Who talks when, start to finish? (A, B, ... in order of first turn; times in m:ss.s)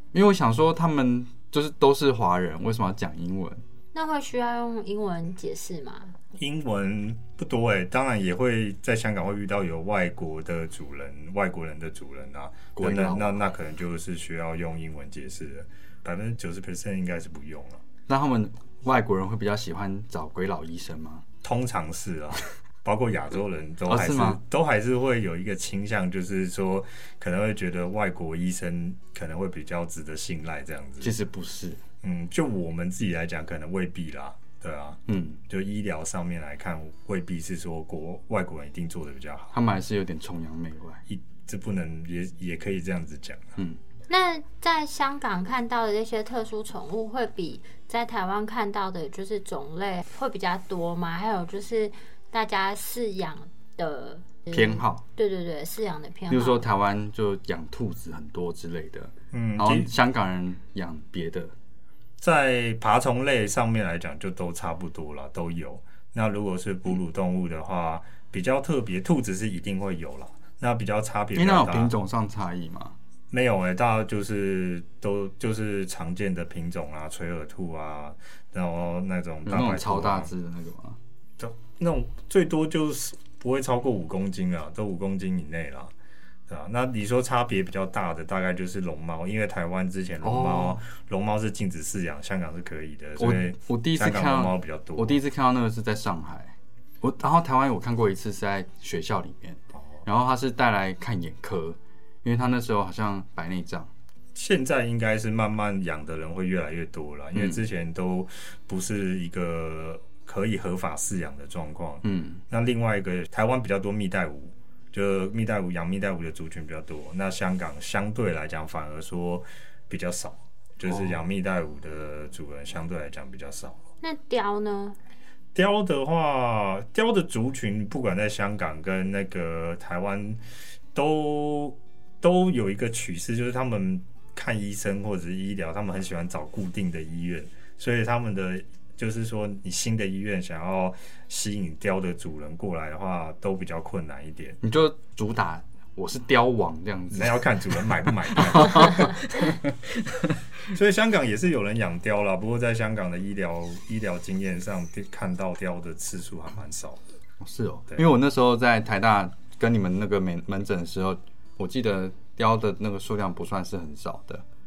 0:00.1-0:03.6 A
0:03.9-0:06.1 B
0:06.4-0:17.8 C
0:12.8-0:13.4 A
0:18.1-0:21.2 A
0:21.4-0:31.1 C
0:23.9-0:24.4 A
0:31.0-0:31.8 A
0:32.0-0:39.5 C
0:35.1-0:35.4 A
0:39.5-0:41.0 A
0:41.1-0:43.6 C
0:44.1-0:56.6 B
0:54.5-0:55.0 A
0:56.3-1:01.5 A
0:59.3-0:59.9 C
1:02.2-1:11.9 C
1:11.3-1:12.9 A
1:13.3-1:20.3 C
1:19.4-1:21.0 A
1:21.4-1:25.9 C
1:26.5-1:35.2 C
1:30.2-1:30.8 A
1:33.2-1:43.9 A
1:44.3-2:03.8 C
1:47.3-1:47.6 A
1:52.0-1:52.4 A
2:04.0-2:05.0 B
2:05.5-2:10.4 C
2:10.9-2:24.6 C
2:24.6-2:30.3 A
2:27.1-2:29.5 C
2:30.7-2:37.0 C
2:37.4-2:44.4 A